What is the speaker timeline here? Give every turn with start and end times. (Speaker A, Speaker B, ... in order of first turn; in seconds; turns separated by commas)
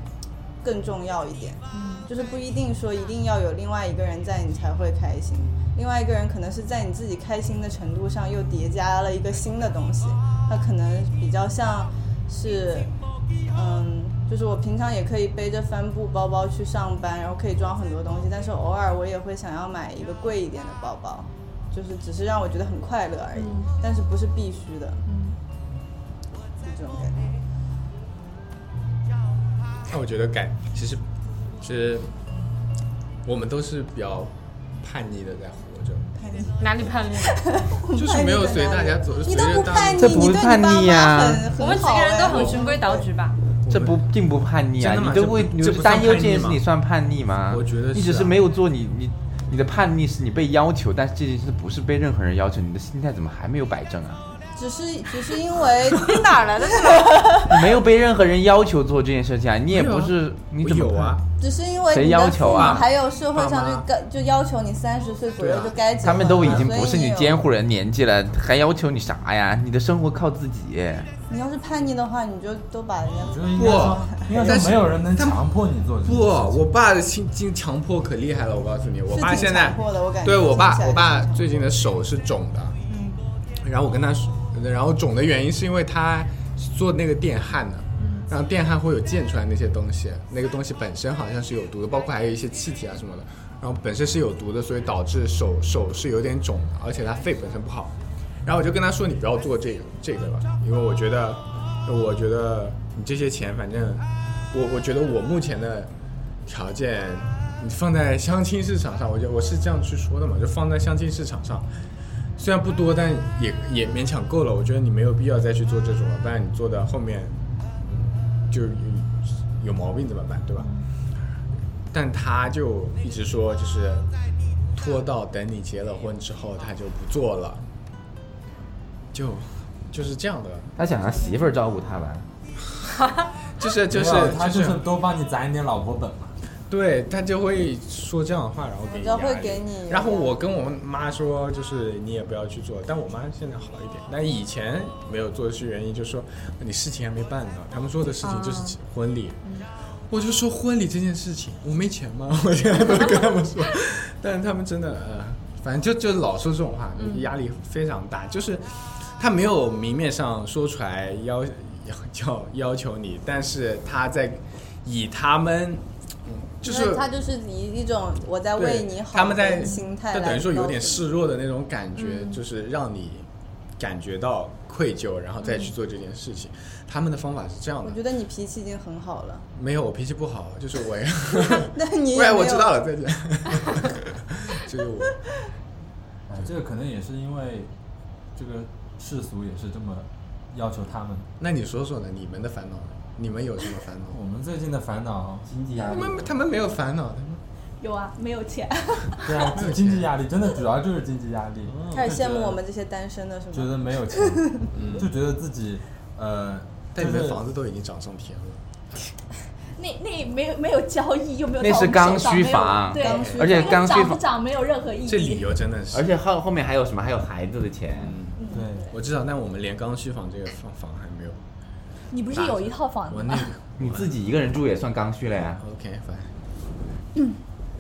Speaker A: 0.6-12.9, Speaker B: 1.7-2.1, Speaker A: 13.5-25.0, Speaker B: 23.4-23.7, Speaker B: 25.1-25.4, Speaker A: 26.6-27.4, Speaker C: 29.9-31.0, Speaker C: 31.6-32.1, Speaker C: 33.2-36.1, Speaker A: 36.1-36.6, Speaker B: 36.6-37.4, Speaker A: 37.3-43.1, Speaker C: 37.9-40.3, Speaker D: 40.0-41.5, Speaker B: 41.6-43.4, Speaker C: 42.3-42.7, Speaker C: 43.6-44.0, Speaker D: 43.7-54.2, Speaker C: 44.8-46.6, Speaker C: 47.5-48.4, Speaker A: 54.5-56.3, Speaker B: 56.0-57.4, Speaker A: 57.0-57.4, Speaker D: 57.4-61.2, Speaker C: 59.7-61.2, Speaker A: 61.4-67.3, Speaker D: 61.9-62.9, Speaker C: 62.5-63.8, Speaker C: 65.4-65.8, Speaker D: 66.0-71.1, Speaker C: 66.4-66.7, Speaker A: 71.3-74.5, Speaker E: 73.2-76.6, Speaker C: 73.5-75.4, Speaker C: 76.0-82.8, Speaker A: 79.1-81.5, Speaker B: 82.9-83.2, Speaker C: 83.6-97.9, Speaker B: 88.0-88.3, Speaker C: 98.4-105.9, Speaker C: 106.5-111.7, Speaker C: 112.4-120.7, Speaker C: 121.9-124.1, Speaker C: 124.7-127.7, Speaker C: 129.1-130.7, Speaker D: 130.8-132.2, Speaker C: 133.6-134.8, Speaker E: 133.9-136.3, Speaker C: 136.7-149.4, Speaker A: 138.9-140.3, Speaker B: 148.2-148.8, Speaker C: 150.1-167.1, Speaker B: 157.0-157.3, Speaker A: 166.6-171.1, Speaker C: 168.6-173.3, Speaker B: 172.0-172.4, Speaker C: 173.8-178.0, Speaker B: 175.4-175.7, Speaker A: 177.8-179.4, Speaker C: 179.5-185.2, Speaker A: 181.5-182.8, Speaker E: 186.3-187.7, Speaker E: 188.3-191.3, Speaker C: 191.4-194.2, Speaker E: 194.1-196.3, Speaker C: 195.8-197.4, Speaker F: 197.8-199.5, Speaker E: 199.2-202.6, Speaker C: 199.5-200.1, Speaker A: 201.9-204.7, Speaker E: 203.5-207.4, Speaker C: 204.7-205.1, Speaker C: 206.9-208.6, Speaker F: 209.8-215.5, Speaker D: 211.6-214.2, Speaker A: 213.0-213.9, Speaker C: 213.0-213.7, Speaker C: 215.0-216.1, Speaker D: 215.9-218.2, Speaker C: 218.0-221.4, Speaker F: 218.4-218.9, Speaker E: 218.5-218.9, Speaker F: 222.1-223.5, Speaker C: 222.3-224.2, Speaker D: 223.8-225.6, Speaker C: 225.6-226.3